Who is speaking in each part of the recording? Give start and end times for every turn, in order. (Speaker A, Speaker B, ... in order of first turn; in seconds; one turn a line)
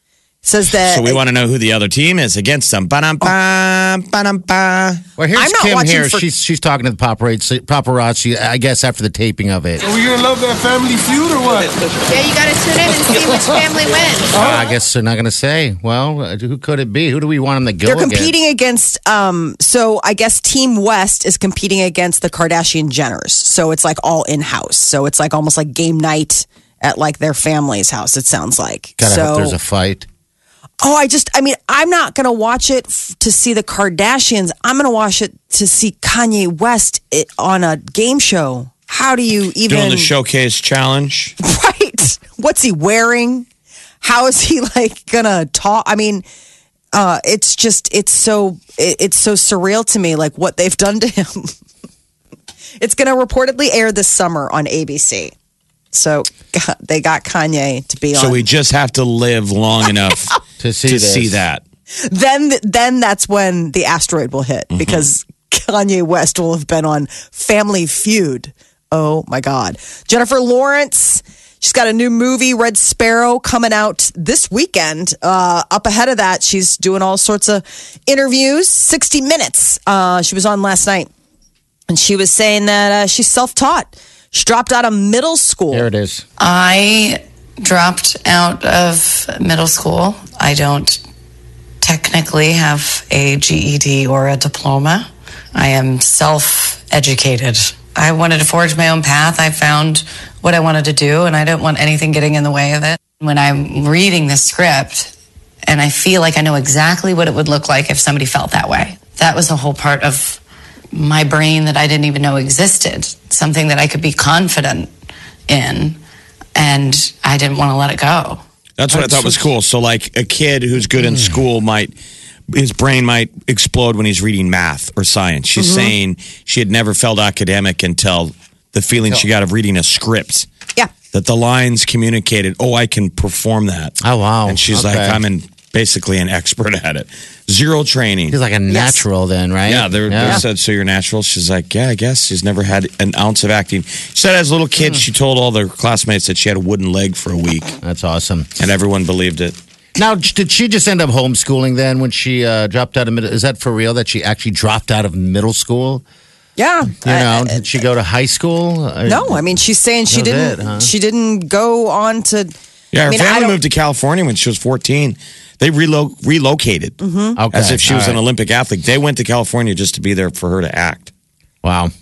Speaker A: 0.5-1.2
Speaker B: 0.8-5.0
Speaker C: 5.2-9.8
Speaker A: 5.4-6.3
Speaker D: 9.8-11.9
Speaker E: 12.1-14.4
Speaker C: 14.3-18.3
Speaker A: 17.8-29.6
Speaker C: 29.0-30.1
Speaker A: 30.8-40.1
Speaker B: 39.7-41.4
Speaker A: 41.4-43.5
Speaker A: 44.0-46.2
Speaker A: 46.9-51.5
Speaker A: 52.8-55.3
Speaker A: 55.9-58.5
Speaker B: 58.1-60.4
Speaker C: 60.6-61.4
Speaker B: 60.9-61.6
Speaker A: 62.0-81.1
Speaker B: 64.7-65.0
Speaker A: 81.9-85.9
Speaker C: 85.7-86.3
Speaker F: 86.4-91.0
Speaker F: 91.8-105.1
Speaker F: 105.7-114.9
Speaker F: 115.5-116.0
Speaker F: 116.6-118.4
Speaker B: 118.8-121.9
Speaker C: 118.9-119.4
Speaker C: 121.0-121.3
Speaker B: 122.5-130.5
Speaker A: 125.6-125.9
Speaker C: 128.9-129.2
Speaker B: 131.1-138.4
Speaker C: 134.0-135.2
Speaker C: 138.3-140.4
Speaker A: 138.7-139.0
Speaker B: 139.7-147.7
Speaker C: 147.8-148.5
Speaker B: 148.6-149.6
Speaker C: 150.0-156.0
Speaker A: 156.6-157.6
Speaker C: 157.0-159.6
Speaker A: 159.1-162.5
Speaker C: 160.1-160.9
Speaker B: 162.9-167.0
Speaker A: 163.1-163.6
Speaker A: 167.0-167.4
Speaker C: 167.4-168.2
Speaker B: 167.5-171.1
Speaker C: 171.6-171.9